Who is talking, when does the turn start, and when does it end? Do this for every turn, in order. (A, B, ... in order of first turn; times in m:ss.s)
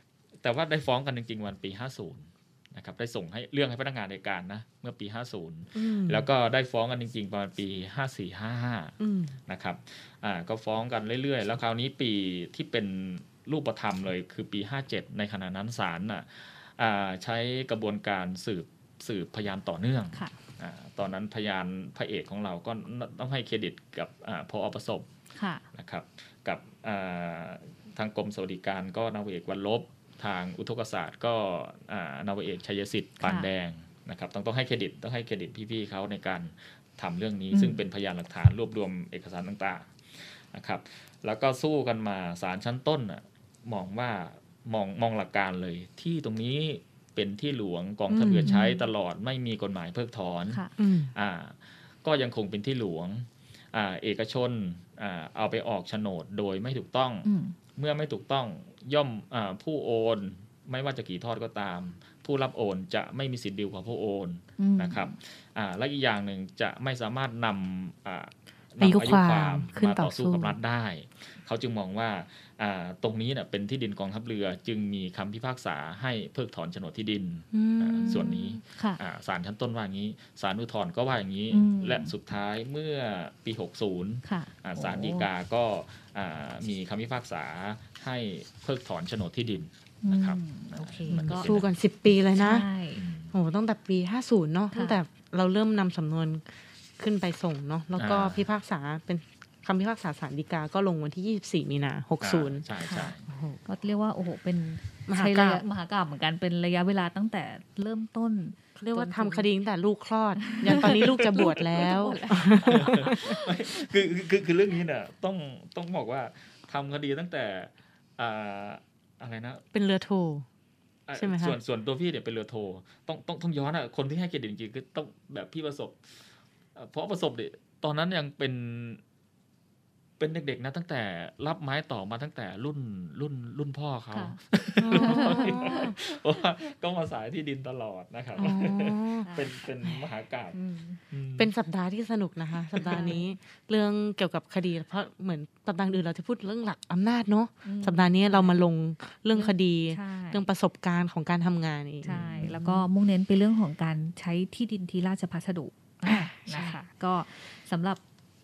0:00.4-0:09.0 A
0:05.8-0:06.3 B
0:09.0-0:09.4 B
0:09.5-0:25.1 A
0:25.4-0:25.6 C
0:25.7-0:50.6 A
0:33.2-0:33.5 C
0:37.5-0:37.8 C
0:48.1-0:48.5 B
0:48.4-0:48.8 C
0:50.8-0:51.1 B
0:51.2-1:31.7 A
0:57.2-0:57.6 C
1:04.6-1:05.1 C
1:08.8-1:10.6 B
1:17.5-1:18.6 B
1:18.1-1:19.0 C
1:21.5-1:22.1 C
1:24.2-1:25.3 C
1:30.0-1:31.5 C
1:31.1-1:32.7 B
1:32.4-1:33.0 C
1:33.0-1:33.3 A
1:33.3-1:36.4 B
1:34.7-1:35.0 C
1:37.0-1:42.6 B
1:38.0-1:38.5 A
1:42.2-1:43.2 A
1:43.3-1:43.6 B
1:43.7-1:49.5 C
1:45.1-1:45.6 B
1:48.8-1:53.3 B
1:50.5-1:53.8 C
1:52.6-1:59.6 A
1:59.7-2:00.5 B
2:01.1-2:06.2 A
2:01.2-2:01.6 B
2:06.8-2:09.0 A
2:10.2-2:20.6 A
2:14.1-2:14.4 C
2:14.8-2:16.0 B
2:14.9-2:15.9 C
2:18.4-2:19.3 B
2:19.2-2:19.5 C
2:20.5-2:21.0 C
2:21.1-2:21.5 A
2:21.4-2:32.9 B
2:22.8-2:23.1 A
2:22.9-2:23.4 C
2:27.6-2:28.6 C
2:29.3-2:30.5 C
2:32.0-2:38.0 C
2:32.1-2:32.6 A
2:36.1-2:36.8 B